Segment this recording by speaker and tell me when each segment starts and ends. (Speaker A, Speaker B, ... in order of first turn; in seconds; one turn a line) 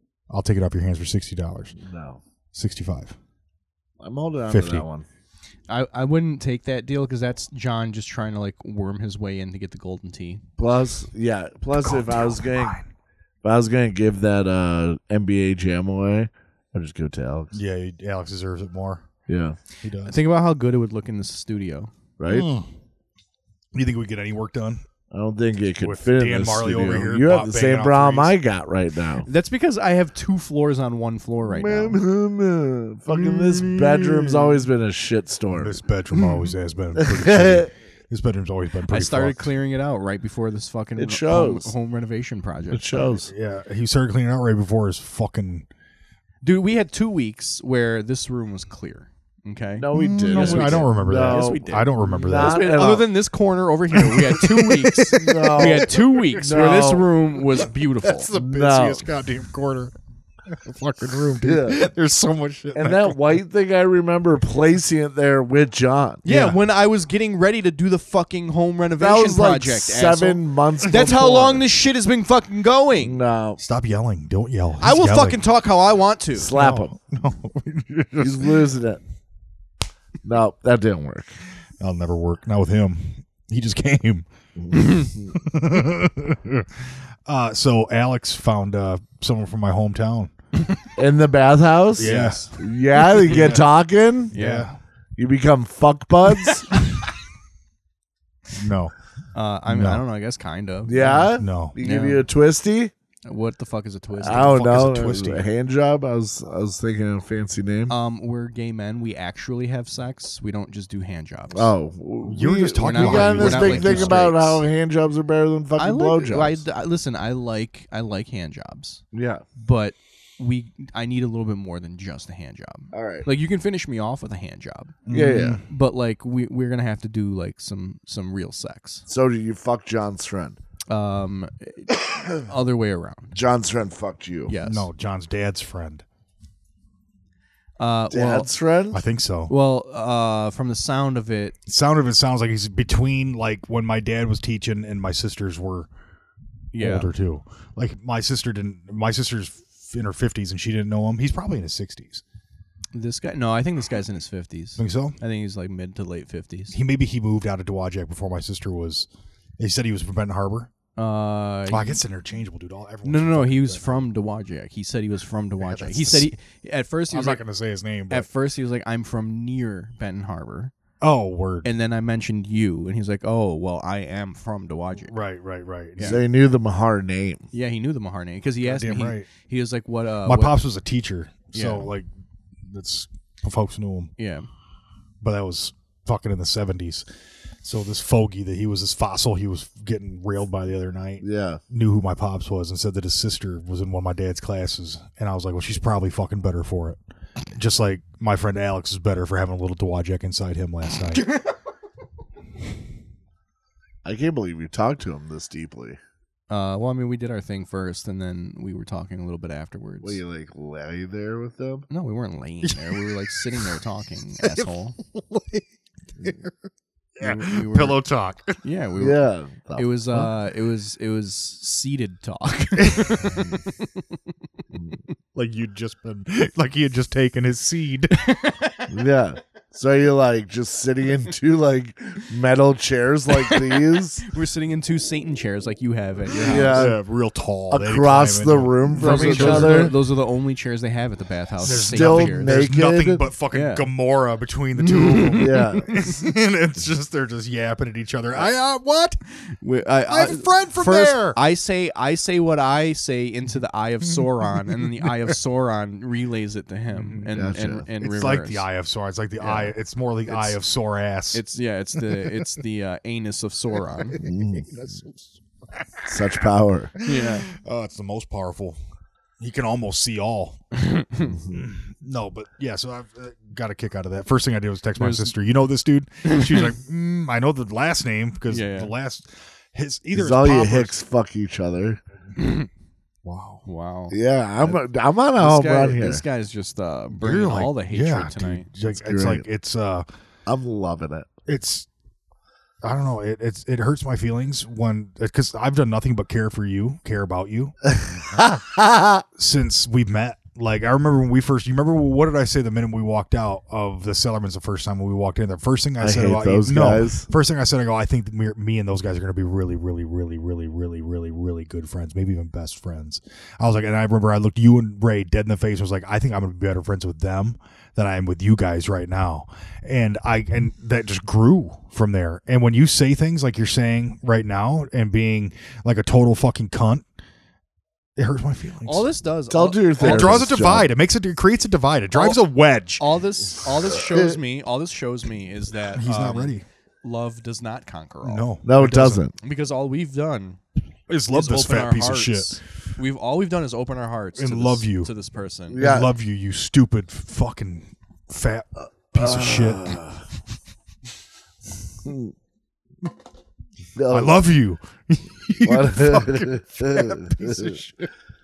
Speaker A: 0.3-1.8
Speaker B: 1.8-2.2
Speaker A: 2.5-3.1
Speaker B: 4.0-5.0
Speaker A: 4.5-4.8
Speaker C: 5.7-10.4
Speaker B: 10.6-12.8
Speaker A: 11.8-12.9
Speaker B: 13.4-17.5
Speaker A: 17.5-19.0
Speaker B: 19.3-19.6
Speaker A: 19.8-20.2
Speaker C: 20.0-21.9
Speaker B: 22.2-22.5
Speaker A: 22.3-22.7
Speaker A: 23.7-24.8
Speaker B: 25.1-29.3
Speaker A: 25.8-28.3
Speaker C: 29.2-32.0
Speaker B: 31.4-35.8
Speaker A: 33.2-34.5
Speaker A: 35.5-39.5
Speaker B: 37.0-37.7
Speaker C: 38.9-43.0
Speaker B: 41.0-41.7
Speaker B: 42.7-43.3
Speaker A: 43.1-45.7
Speaker C: 46.4-58.3
Speaker B: 49.8-53.1
Speaker A: 49.9-52.8
Speaker A: 53.9-56.7
Speaker B: 55.1-57.1
Speaker A: 58.2-59.9
Speaker B: 58.3-59.1
Speaker A: 60.5-63.4
Speaker B: 61.4-61.8
Speaker B: 62.7-66.2
Speaker C: 66.2-73.2
Speaker A: 66.2-66.6
Speaker B: 69.0-71.7
Speaker B: 73.0-73.6
Speaker A: 73.6-75.4
Speaker C: 74.8-76.5
Speaker B: 76.3-76.9
Speaker A: 76.5-78.6
Speaker B: 78.2-79.0
Speaker B: 80.2-81.3
Speaker A: 81.8-84.2
Speaker B: 84.6-85.3
Speaker C: 84.7-85.1
Speaker A: 85.3-90.3
Speaker B: 91.0-94.3
Speaker A: 92.0-92.5
Speaker C: 92.0-92.6
Speaker A: 93.2-93.7
Speaker C: 94.3-94.7
Speaker A: 94.3-94.8
Speaker B: 95.2-96.7
Speaker A: 98.5-98.9
Speaker C: 99.3-102.2
Speaker A: 99.7-100.0
Speaker B: 100.8-102.9
Speaker A: 101.0-101.8
Speaker C: 103.2-104.6
Speaker B: 104.2-107.9
Speaker A: 104.2-105.5
Speaker C: 107.9-111.7
Speaker B: 111.5-116.6
Speaker A: 112.2-114.2
Speaker C: 112.8-114.6
Speaker C: 115.8-119.0
Speaker B: 119.1-119.4
Speaker C: 119.6-129.0
Speaker B: 122.9-123.2
Speaker A: 125.1-125.6
Speaker B: 125.1-125.6
Speaker B: 129.1-130.6
Speaker C: 130.9-133.3
Speaker B: 133.3-134.5
Speaker C: 134.5-134.9
Speaker A: 134.6-136.0
Speaker C: 137.8-138.5
Speaker B: 138.1-139.0
Speaker A: 138.9-139.5
Speaker C: 139.5-141.6
Speaker A: 141.7-145.9
Speaker C: 146.7-147.1
Speaker A: 146.8-152.2
Speaker C: 152.9-156.8
Speaker A: 154.8-155.2
Speaker A: 156.7-159.1
Speaker A: 159.6-160.7
Speaker C: 161.0-162.0
Speaker A: 161.7-164.0
Speaker C: 163.0-167.4
Speaker A: 165.6-166.3
Speaker A: 167.1-168.3
Speaker C: 168.1-170.7
Speaker A: 171.0-171.7
Speaker C: 171.6-175.1
Speaker A: 175.1-176.2
Speaker B: 176.0-177.5
Speaker C: 177.5-180.6
Speaker A: 178.6-179.3
Speaker A: 180.2-182.1
Speaker C: 181.5-181.9
Speaker A: 182.7-184.1
Speaker C: 184.2-184.5
Speaker A: 185.2-187.1
Speaker A: 187.6-197.0
Speaker B: 191.2-191.6
Speaker A: 197.5-201.3
Speaker B: 204.0-206.0
Speaker C: 206.5-210.2
Speaker B: 210.0-211.9
Speaker C: 211.9-215.0
Speaker A: 212.6-213.6
Speaker A: 214.4-215.7
Speaker A: 216.2-216.5
Speaker A: 217.2-218.6
Speaker C: 217.2-218.0
Speaker C: 218.6-219.2
Speaker B: 219.0-220.0
Speaker C: 219.7-224.2
Speaker A: 222.8-223.4
Speaker A: 225.3-228.3
Speaker C: 228.2-228.8
Speaker B: 228.9-234.3
Speaker C: 234.2-236.9
Speaker B: 236.4-237.0
Speaker A: 236.5-239.9
Speaker B: 237.7-239.9
Speaker C: 239.0-242.6
Speaker A: 241.6-249.2
Speaker B: 241.9-243.2
Speaker C: 243.5-243.9
Speaker C: 244.8-246.1
Speaker B: 245.4-245.9
Speaker C: 249.5-258.6
Speaker A: 250.1-251.4
Speaker A: 254.8-255.1
Speaker A: 256.9-257.3
Speaker B: 257.3-257.9
Speaker A: 258.0-261.4
Speaker C: 259.4-259.7
Speaker C: 260.3-260.6
Speaker C: 261.3-264.2
Speaker A: 262.0-262.4
Speaker A: 264.1-266.1
Speaker B: 264.2-264.8
Speaker B: 266.0-267.0
Speaker A: 267.0-268.8
Speaker C: 267.0-267.5
Speaker A: 269.4-270.6
Speaker C: 270.7-271.4
Speaker B: 271.3-271.7
Speaker A: 271.5-280.9
Speaker C: 275.0-275.3
Speaker C: 276.2-276.7
Speaker C: 278.5-278.9
Speaker B: 280.1-282.0
Speaker C: 282.4-282.7
Speaker A: 283.2-283.6
Speaker C: 283.6-284.8
Speaker B: 284.1-286.2
Speaker C: 285.4-288.7
Speaker A: 287.1-290.1
Speaker B: 288.9-289.4
Speaker B: 290.4-291.3
Speaker A: 291.4-291.9
Speaker A: 292.8-297.7
Speaker B: 297.9-299.2
Speaker A: 299.4-327.1
Speaker B: 306.0-307.3
Speaker A: 328.2-329.1
Speaker C: 328.8-330.5
Speaker B: 329.5-330.9
Speaker A: 330.0-333.0
Speaker C: 332.1-332.4
Speaker C: 333.0-338.5
Speaker B: 333.9-334.4
Speaker A: 335.9-336.6
Speaker A: 338.2-339.2
Speaker B: 338.6-339.3
Speaker C: 339.4-340.6
Speaker A: 341.1-342.6
Speaker C: 341.3-345.8
Speaker A: 344.4-345.1
Speaker B: 345.7-346.1
Speaker A: 345.8-350.0
Speaker B: 349.1-350.2
Speaker B: 352.0-352.3
Speaker B: 353.9-354.4
Speaker A: 354.1-358.1
Speaker B: 355.6-357.8